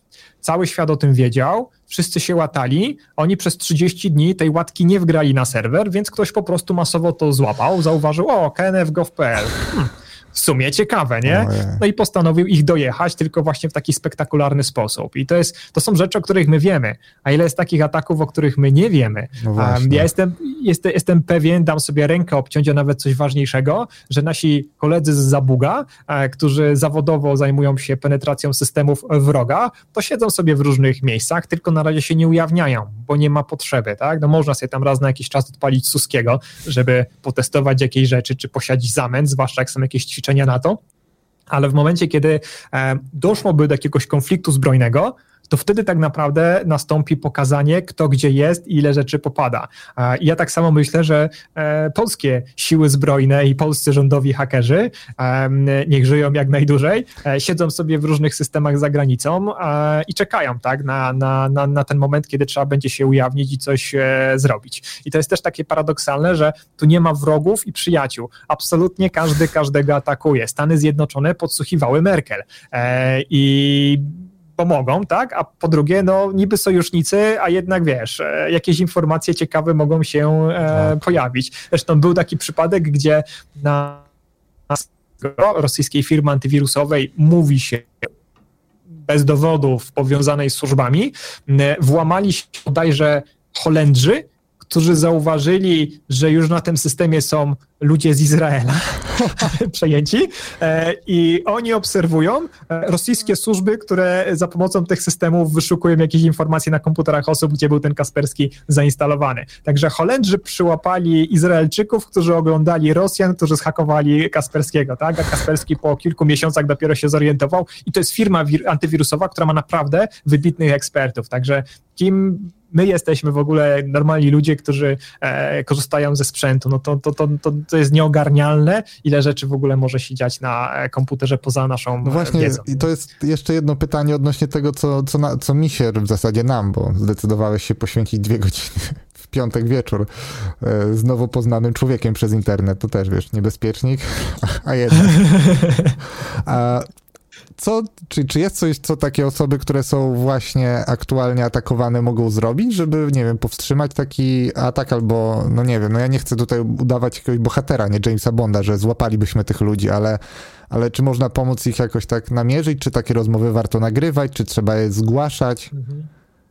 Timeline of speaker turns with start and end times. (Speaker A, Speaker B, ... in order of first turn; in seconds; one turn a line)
Speaker A: 0.4-40.8
Speaker B: 11.2-11.8
Speaker B: 19.4-20.1
Speaker A: 41.5-84.0
Speaker A: 84.7-88.0
Speaker A: 89.1-132.8
Speaker B: 132.0-145.4
Speaker A: 145.1-145.9
Speaker B: 146.3-146.9
Speaker B: 147.6-165.7
Speaker A: 165.7-166.1